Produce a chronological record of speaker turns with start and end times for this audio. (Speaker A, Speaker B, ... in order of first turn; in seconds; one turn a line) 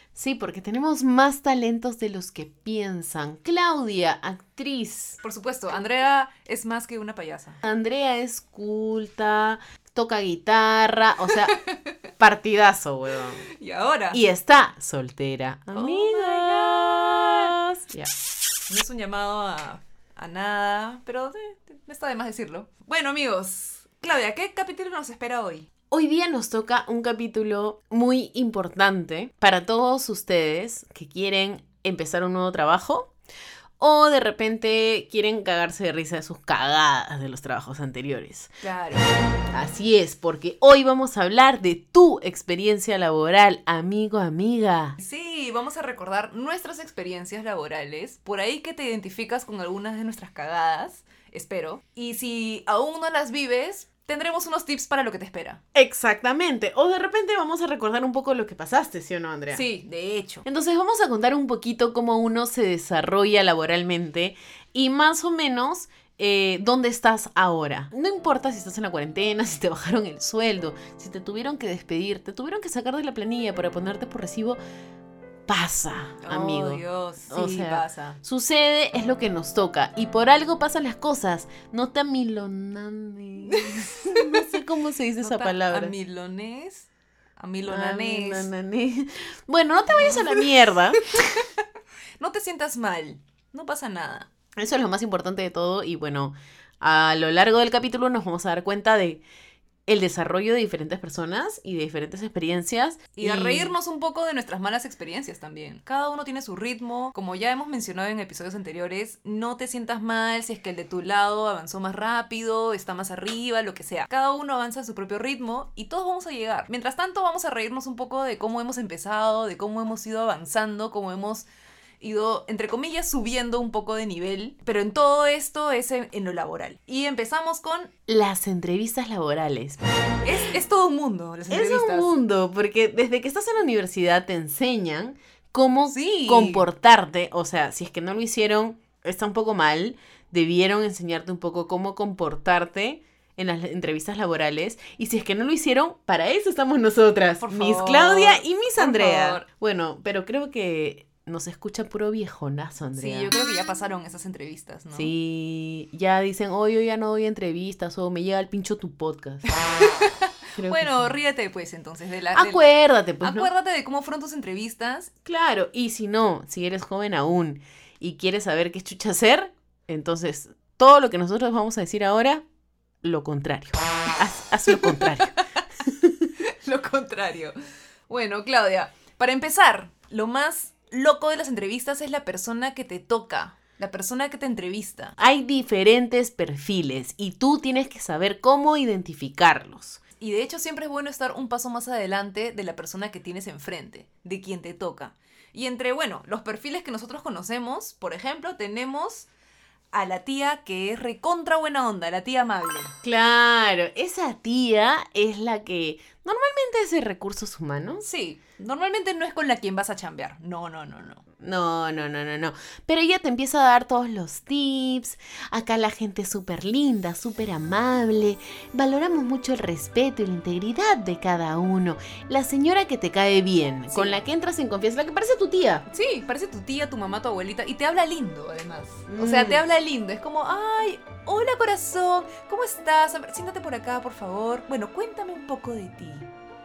Speaker A: 0.1-5.2
Speaker B: 5.2-7.6
Speaker A: 7.6-11.6
Speaker B: 11.3-11.9
Speaker A: 12.2-13.4
Speaker B: 13.5-14.2
Speaker A: 14.1-18.1
Speaker B: 15.7-17.6
Speaker B: 18.7-25.7
Speaker A: 25.9-33.1
Speaker A: 33.8-38.5
Speaker B: 38.6-39.0
Speaker A: 39.5-45.0
Speaker B: 45.0-55.6
Speaker A: 55.7-59.6
Speaker B: 59.5-60.4
Speaker A: 60.4-74.6
Speaker A: 75.5-85.9
Speaker B: 76.2-78.2
Speaker B: 83.5-84.5
Speaker B: 85.2-86.9
Speaker B: 87.4-88.5
Speaker A: 87.7-91.0
Speaker B: 89.9-90.5
Speaker B: 91.1-91.5
Speaker B: 92.2-94.3
Speaker A: 94.6-99.2
Speaker A: 99.9-103.7
Speaker B: 103.2-121.5
Speaker B: 122.0-127.9
Speaker A: 128.1-129.8
Speaker B: 130.2-132.1
Speaker A: 131.5-153.3
Speaker B: 135.9-136.7
Speaker B: 147.4-149.5
Speaker B: 152.9-155.1
Speaker A: 154.9-159.5
Speaker B: 159.5-162.6
Speaker A: 160.5-161.1
Speaker A: 162.3-163.5
Speaker B: 163.2-165.1
Speaker A: 165.2-172.4
Speaker A: 173.0-176.3
Speaker B: 174.7-175.1
Speaker B: 176.4-177.5
Speaker B: 178.1-185.2
Speaker A: 185.2-190.0
Speaker B: 190.2-199.3
Speaker B: 199.9-202.9
Speaker A: 203.0-208.1
Speaker B: 208.0-211.2
Speaker A: 211.4-225.8
Speaker B: 223.9-224.2
Speaker B: 225.9-236.3
Speaker A: 229.1-229.6